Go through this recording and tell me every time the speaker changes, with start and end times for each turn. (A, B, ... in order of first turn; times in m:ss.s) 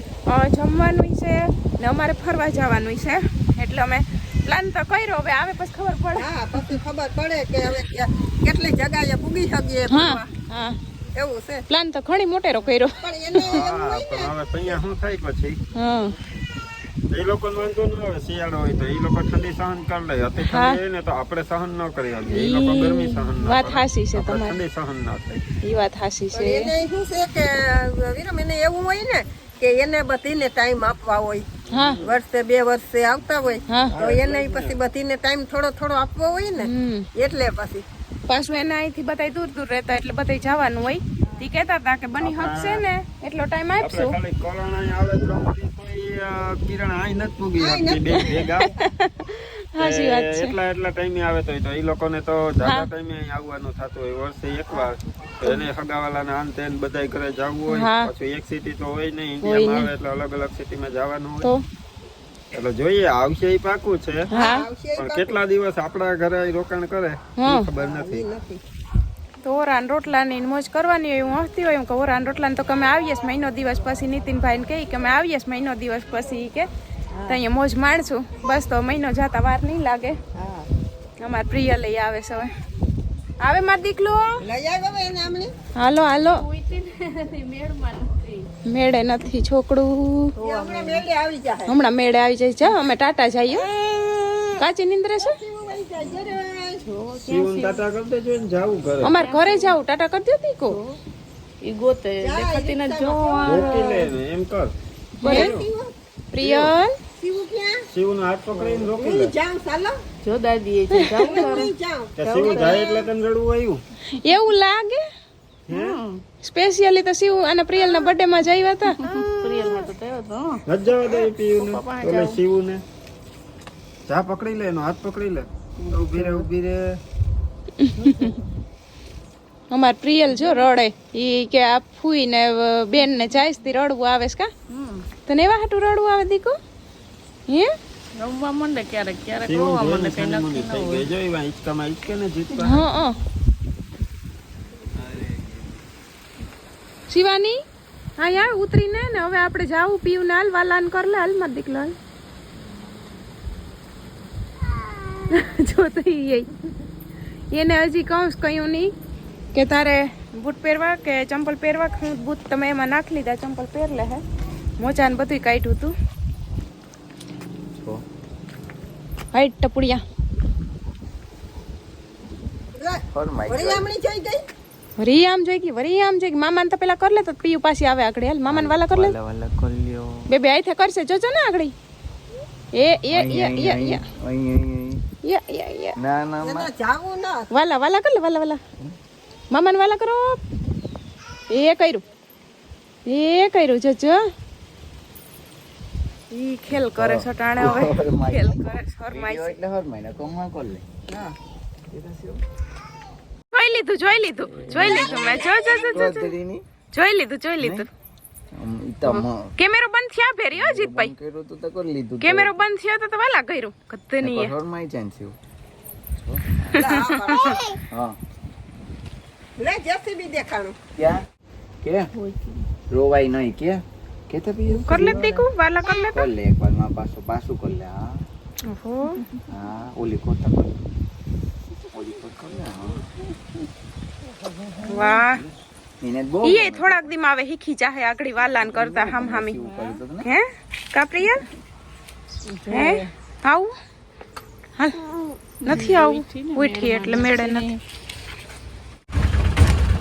0:00.3-0:06.8 A
0:06.1-0:10.3 B
0:09.9-0:10.8 A
0:11.1-0:11.6 B
0:11.7-0:13.6 A
0:13.0-0:14.8 B
0:13.4-0:15.6 C
0:15.8-0:16.2 A
0:17.1-0:25.4 C
0:20.4-0:20.8 A
0:22.3-0:24.6 A
0:25.6-0:26.7 A
0:26.3-0:31.5 B
0:31.7-0:32.0 A
0:31.7-0:32.2 C
0:32.0-0:37.8 B
0:33.7-0:34.0 A
0:33.8-0:34.8 C
0:36.6-0:37.1 A
0:38.3-0:44.2 A
0:42.2-0:42.8 C
0:43.8-0:48.7 C
0:47.6-0:48.9 B
0:48.1-0:50.5 A
0:49.8-1:01.5 C
0:52.6-0:52.9 A
0:57.7-0:58.1 A
0:59.4-0:59.9 A
1:02.5-1:04.3 C
1:04.3-1:04.6 A
1:04.3-1:05.4 B
1:05.0-1:08.3 C
1:07.4-1:07.7 A
1:07.8-1:08.6 B
1:09.4-1:16.7 A
1:17.3-1:20.2 A
1:21.2-1:22.5 A
1:23.4-1:24.4 A
1:24.4-1:25.5 B
1:25.8-1:26.4 A
1:26.3-1:28.5 D
1:28.6-1:30.3 A
1:30.4-1:31.1 D
1:30.4-1:31.7 B
1:31.7-1:33.6 A
1:33.8-1:34.4 B
1:34.6-1:35.3 A
1:35.2-1:36.8 B
1:36.8-1:37.8 D
1:37.2-1:39.1 C
1:39.0-1:39.8 D
1:39.0-1:40.8 A
1:40.7-1:41.0 D
1:41.6-1:44.1 D
1:42.2-1:43.9 B
1:43.4-1:44.7 C
1:45.2-1:45.5 A
1:45.2-1:45.9 B
1:45.3-1:45.6 C
1:46.3-1:47.0 A
1:46.4-1:46.7 C
1:47.2-1:47.8 B
1:47.9-1:49.3 C
1:48.5-1:48.8 D
1:48.9-1:50.0 B
1:50.2-1:52.8 D
1:51.2-1:53.0 B
1:52.2-1:53.8 C
1:54.1-1:55.0 A
1:55.7-1:56.0 C
1:55.7-1:56.2 D
1:56.4-1:59.0 A
1:58.9-2:02.4 D
2:00.7-2:02.8 C
2:04.1-2:07.0 C
2:05.8-2:06.5 D
2:07.8-2:08.3 A
2:08.0-2:08.4 D
2:09.7-2:14.5 A
2:10.3-2:10.6 D
2:14.7-2:15.0 D
2:15.2-2:16.6 A
2:18.2-2:21.1 D
2:19.4-2:22.8 C
2:22.6-2:23.2 A
2:27.1-2:27.6 A
2:28.2-2:31.9 A
2:35.3-2:36.5 A
2:37.5-2:38.9 A
2:39.5-2:44.2 A
2:44.8-2:45.9 A
2:47.7-2:48.0 E
2:49.3-2:50.0 A
2:52.7-2:54.4 B
2:53.1-2:53.8 E
2:55.0-2:59.1 A
2:58.5-3:00.3 E
3:00.3-3:01.7 A
3:02.7-3:04.0 A
3:03.1-3:05.0 E
3:05.2-3:06.0 A
3:06.0-3:06.7 E
3:06.4-3:07.5 B
3:07.5-3:08.6 A
3:09.5-3:10.4 A
3:11.5-3:12.0 A
3:13.0-3:14.2 A
3:16.3-3:19.6 A
3:16.7-3:21.3 E
3:21.9-3:22.4 E
3:23.5-3:26.3 A
3:24.6-3:26.6 E
3:26.9-3:27.9 A
3:27.6-3:27.8 E
3:28.5-3:29.5 E
3:29.0-3:31.1 A
3:30.5-3:32.6 E
3:32.2-3:34.6 A
3:34.2-3:35.4 E
3:36.2-3:36.9 E
3:36.7-3:37.6 A
3:36.8-3:37.7 B
3:37.9-3:38.2 E
3:39.6-3:40.8 B
3:41.0-3:41.2 E
3:41.8-3:42.1 E
3:42.1-3:42.7 D
3:42.9-3:45.4 E
3:44.7-3:45.3 D
3:44.9-3:46.3 A
3:46.1-3:48.2 E
3:48.7-3:49.2 A
3:49.5-3:50.8 E
3:51.9-3:53.0 E
3:54.8-3:57.0 E
3:54.8-3:55.4 A
3:56.4-3:59.6 A
3:58.6-4:00.3 E
3:59.6-4:00.0 D
4:00.2-4:01.4 A
4:02.4-4:03.0 D
4:02.7-4:03.7 A
4:04.8-4:05.1 A
4:05.6-4:07.8 D
4:05.6-4:07.6 A